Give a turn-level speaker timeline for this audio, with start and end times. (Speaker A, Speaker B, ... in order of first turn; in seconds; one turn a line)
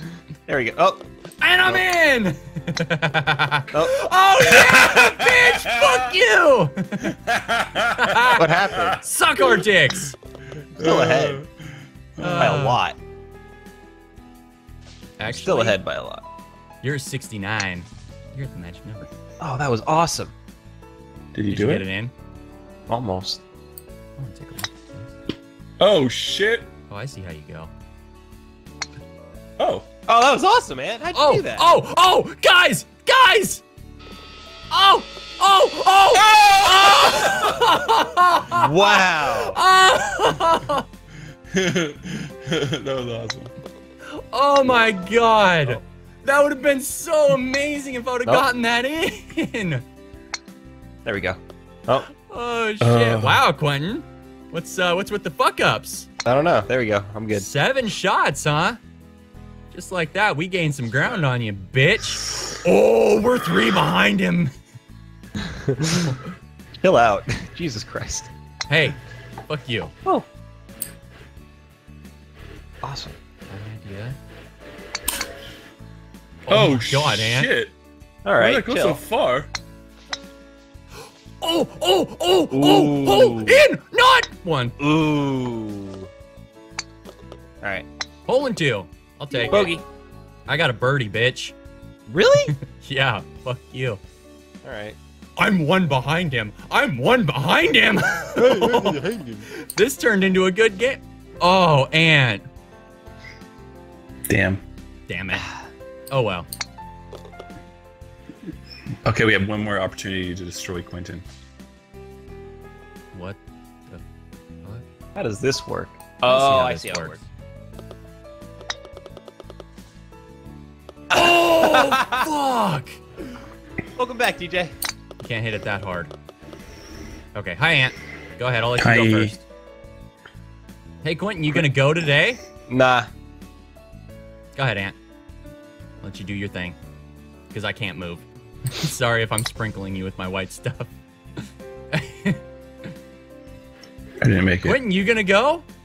Speaker A: 0.5-1.0
Speaker B: 1.4-7.2
Speaker C: 4.5-6.1
Speaker C: 7.0-9.6
Speaker B: 8.0-10.2
Speaker A: 8.4-9.0
Speaker A: 10.8-11.4
Speaker C: 10.8-11.5
Speaker C: 12.2-12.6
Speaker B: 12.2-12.8
Speaker A: 12.3-13.0
Speaker B: 15.2-15.8
Speaker A: 15.2-16.2
Speaker B: 16.8-19.1
Speaker A: 19.4-20.3
Speaker C: 21.3-21.9
Speaker B: 21.5-22.1
Speaker A: 22.9-23.4
Speaker B: 24.2-25.1
Speaker C: 25.8-26.7
Speaker B: 26.9-27.7
Speaker C: 29.6-29.9
Speaker A: 30.1-31.7
Speaker B: 31.1-33.6
Speaker B: 34.7-40.9
Speaker C: 36.1-37.6
Speaker A: 38.5-39.6
Speaker C: 41.5-43.5
Speaker B: 44.1-49.8
Speaker A: 51.0-52.1
Speaker B: 52.3-56.1
Speaker C: 52.8-53.4
Speaker A: 56.2-57.5
Speaker B: 57.3-58.8
Speaker B: 59.7-64.5
Speaker A: 65.4-66.1
Speaker A: 66.8-68.3
Speaker B: 68.7-69.0
Speaker B: 69.5-69.9
Speaker A: 72.8-73.2
Speaker B: 73.5-74.2
Speaker B: 76.5-77.5
Speaker C: 76.5-77.7
Speaker A: 78.2-79.0
Speaker C: 78.4-79.5
Speaker B: 81.4-84.8
Speaker A: 82.5-83.6
Speaker A: 84.8-86.1
Speaker A: 87.6-87.9
Speaker B: 88.3-89.8
Speaker A: 89.5-89.8
Speaker B: 90.5-91.5
Speaker A: 92.1-92.5
Speaker B: 92.5-94.0
Speaker A: 94.6-95.0
Speaker B: 95.4-102.4
Speaker A: 98.4-99.5
Speaker C: 104.3-104.6
Speaker B: 105.1-105.5
Speaker B: 106.1-106.5
Speaker C: 109.0-111.2
Speaker B: 113.1-114.0
Speaker A: 115.2-117.2
Speaker B: 116.2-117.3
Speaker B: 121.1-123.0
Speaker A: 121.2-122.3
Speaker A: 124.0-124.8
Speaker B: 125.2-126.1
Speaker B: 127.3-129.4
Speaker C: 128.8-129.4
Speaker B: 131.0-132.4
Speaker A: 132.7-133.1
Speaker B: 134.6-134.9
Speaker B: 136.0-136.8
Speaker B: 137.5-142.4
Speaker C: 144.2-144.8
Speaker B: 144.6-145.7